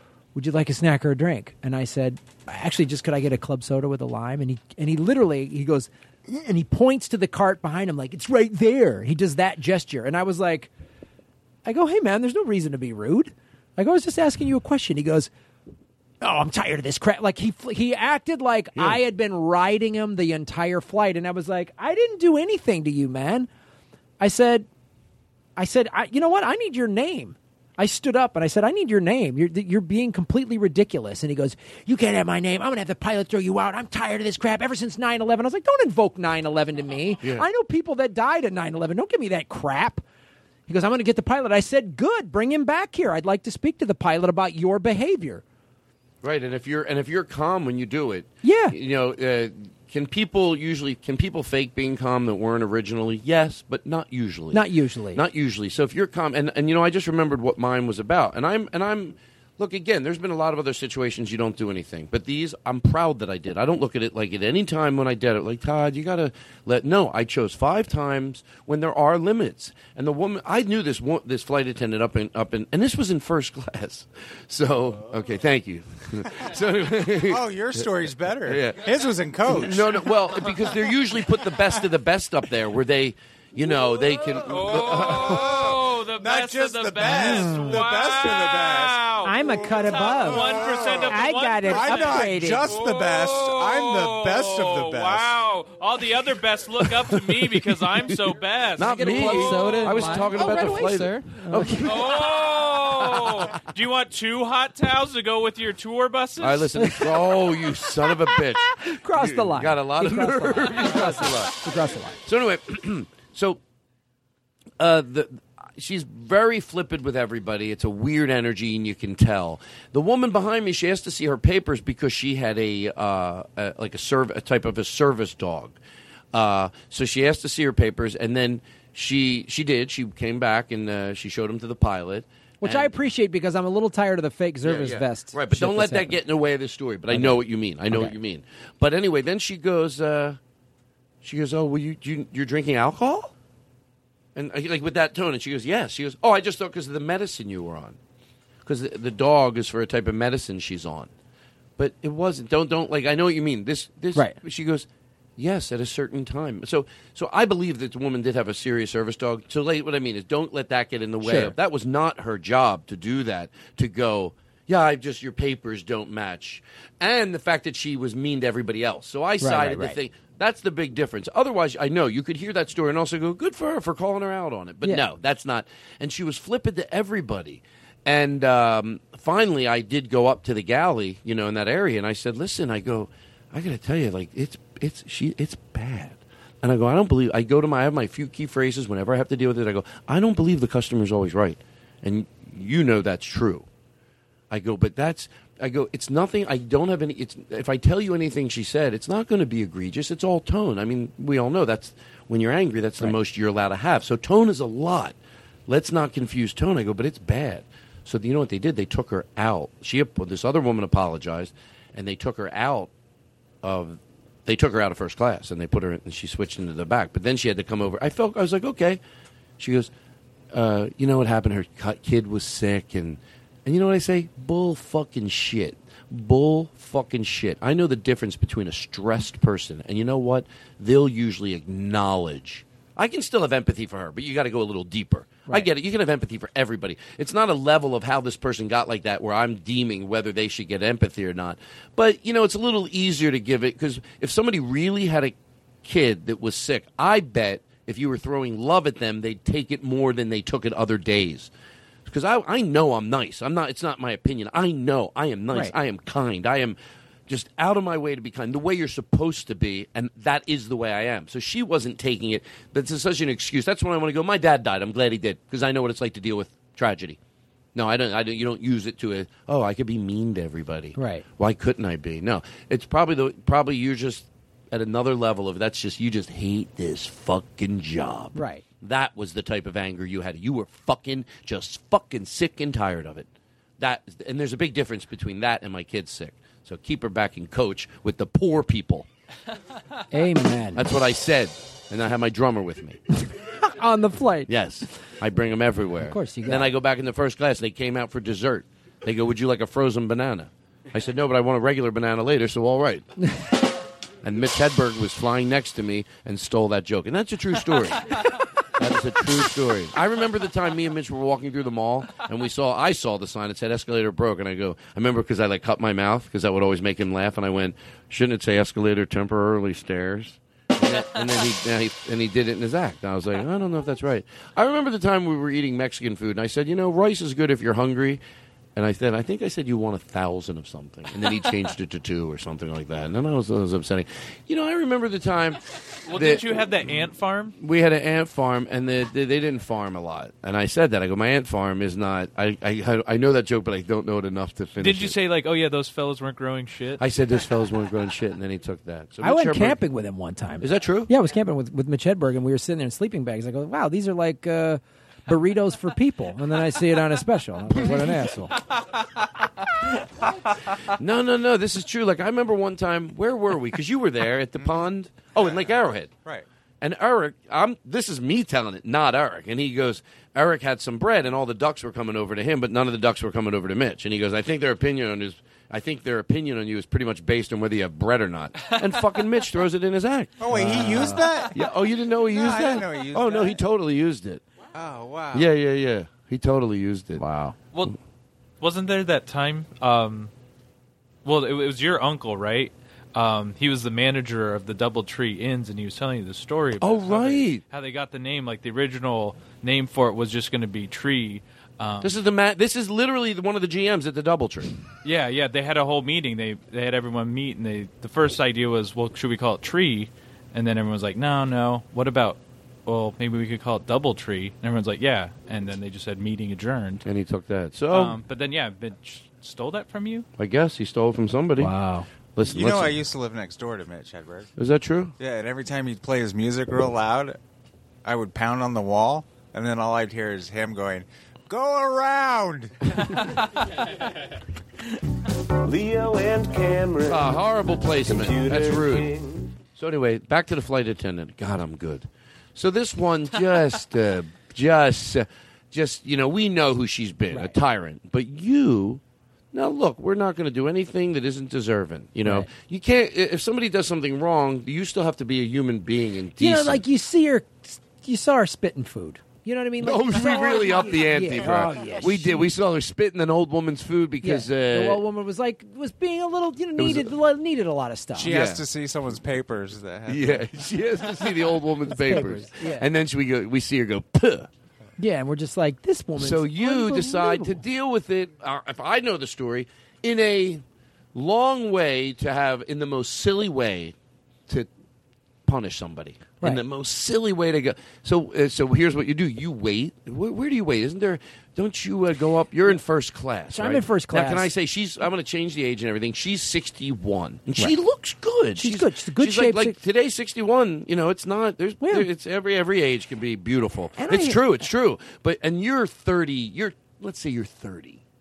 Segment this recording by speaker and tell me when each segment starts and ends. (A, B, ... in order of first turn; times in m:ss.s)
0:00.4-0:10.7 A
0:11.6-0:15.3 A
0:16.2-0:23.5 A
0:18.8-0:19.0 B
0:24.2-0:24.7 A
0:25.6-0:40.0 A
0:40.7-0:45.4 A
0:46.2-1:17.9 B
0:48.4-0:48.8 A
0:54.5-0:55.2 A
1:17.3-1:20.1 C
1:18.4-1:18.8 B
1:19.4-1:25.6 B
1:24.3-1:40.6 D
1:25.1-1:35.4 C
1:27.1-1:27.8 A
1:29.2-1:32.7 A
1:37.4-1:38.1 B
1:38.8-1:43.6 B
1:39.0-1:42.0 A
1:41.8-1:46.8 D
1:46.4-1:51.6 B
1:46.8-1:52.2 A
1:52.2-1:53.6 B
1:54.8-2:05.8 B
2:06.3-2:12.9 B
2:12.6-2:16.2 A
2:14.6-2:20.4 B
2:17.1-2:18.1 A
2:21.2-2:23.3 B
2:24.4-2:28.0 B
2:28.6-2:31.1 B
2:31.8-3:13.7 B
2:41.2-2:41.6 A
2:49.4-2:50.0 A
3:14.5-3:32.9 B
3:33.6-3:39.0 B
3:39.6-3:39.9 B
3:40.5-4:11.5 B
4:12.1-4:27.2 B
4:27.8-4:49.1 B
4:31.0-4:31.2 A
4:38.4-4:38.6 A
4:50.1-4:50.9 A
4:50.7-4:53.0 B
4:53.6-4:54.5 A
4:54.5-5:03.1 B
4:56.0-4:56.7 A
5:04.2-5:08.2 B
5:08.8-5:28.2 B
5:28.8-5:37.1 B
5:36.1-5:37.6 D
5:37.6-5:45.2 B
5:44.8-5:47.0 D
5:47.0-5:49.8 B
5:49.2-5:58.6 A
5:50.6-5:51.1 B
6:00.9-6:06.1 B
6:05.4-6:06.5 C
6:06.8-6:24.4 B
6:20.4-6:21.6 C
6:20.5-6:21.4 A
6:22.3-6:23.6 C
6:24.7-6:25.5 C
6:25.3-6:27.2 B
6:27.2-6:27.6 A
6:27.7-6:28.0 D
6:28.6-6:30.3 D
6:31.2-6:42.2 D
6:36.8-6:37.6 B
6:42.0-6:44.8 B
6:45.0-6:57.1 D
6:57.0-6:58.2 B
6:57.9-7:00.3 D
7:00.4-7:01.7 B
7:01.6-7:02.1 A
7:02.3-7:03.0 B
7:02.5-7:04.5 C
7:04.6-7:05.1 B
7:05.2-7:07.4 C
7:08.0-7:12.8 C
7:15.6-7:19.6 E
7:17.1-7:19.1 B
7:19.8-7:29.0 B
7:27.3-7:27.6 A
7:29.5-7:36.8 B
7:36.4-7:42.5 A
7:39.8-7:45.0 B
7:44.2-7:48.4 A
7:46.8-7:47.2 B
7:48.2-7:50.5 C
7:48.2-7:48.6 B
7:50.1-7:54.5 B
7:51.9-7:52.9 A
7:55.0-7:57.6 A
7:56.2-8:04.0 B
8:05.4-8:28.0 B
8:13.5-8:14.5 A
8:18.6-8:19.8 A
8:21.8-8:22.1 A
8:24.0-8:24.6 A